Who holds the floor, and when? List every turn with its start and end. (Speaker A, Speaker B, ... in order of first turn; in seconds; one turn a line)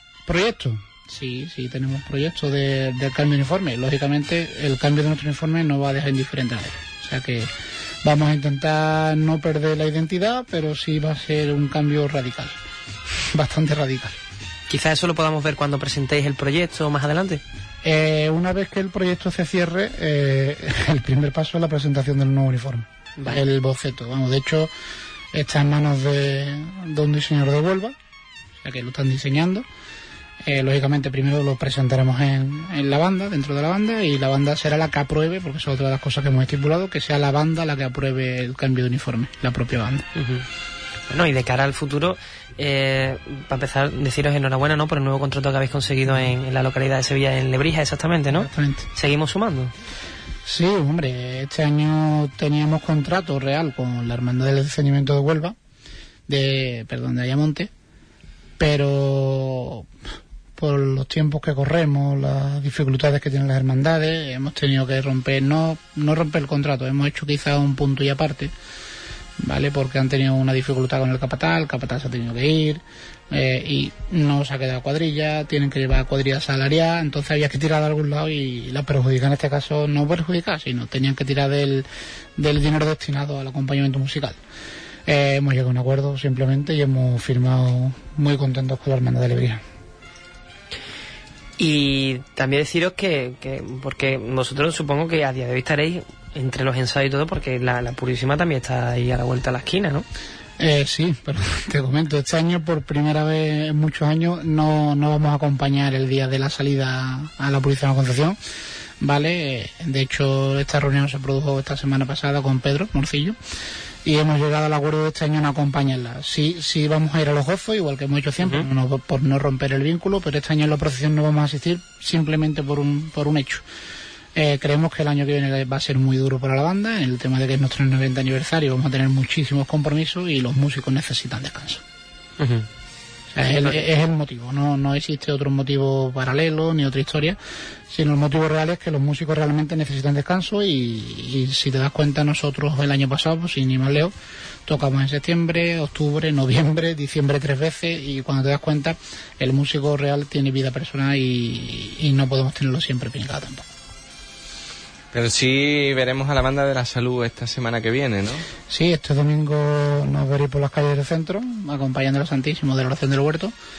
Speaker A: 0.2-7.5
Speaker A: 8.0-12.6
Speaker A: 13.3-14.2
Speaker B: 14.7-17.4
Speaker A: 17.8-24.7
Speaker A: 25.3-27.9
Speaker A: 28.6-29.6
Speaker A: 30.4-40.0
Speaker B: 40.1-40.4
Speaker B: 41.1-49.7
Speaker A: 48.3-48.9
Speaker A: 50.5-55.5
Speaker A: 56.3-57.7
Speaker A: 58.6-59.9
Speaker A: 60.5-68.5
Speaker A: 69.4-84.4
Speaker A: 85.0-89.6
Speaker B: 91.6-100.1
Speaker A: 100.6-108.4
Speaker A: 109.0-113.4
Speaker A: 114.0-123.6
Speaker A: 124.3-131.8
Speaker B: 132.4-132.7
Speaker A: 133.3-144.1
Speaker A: 144.7-153.6
Speaker C: 155.1-158.4
Speaker A: 158.7-163.5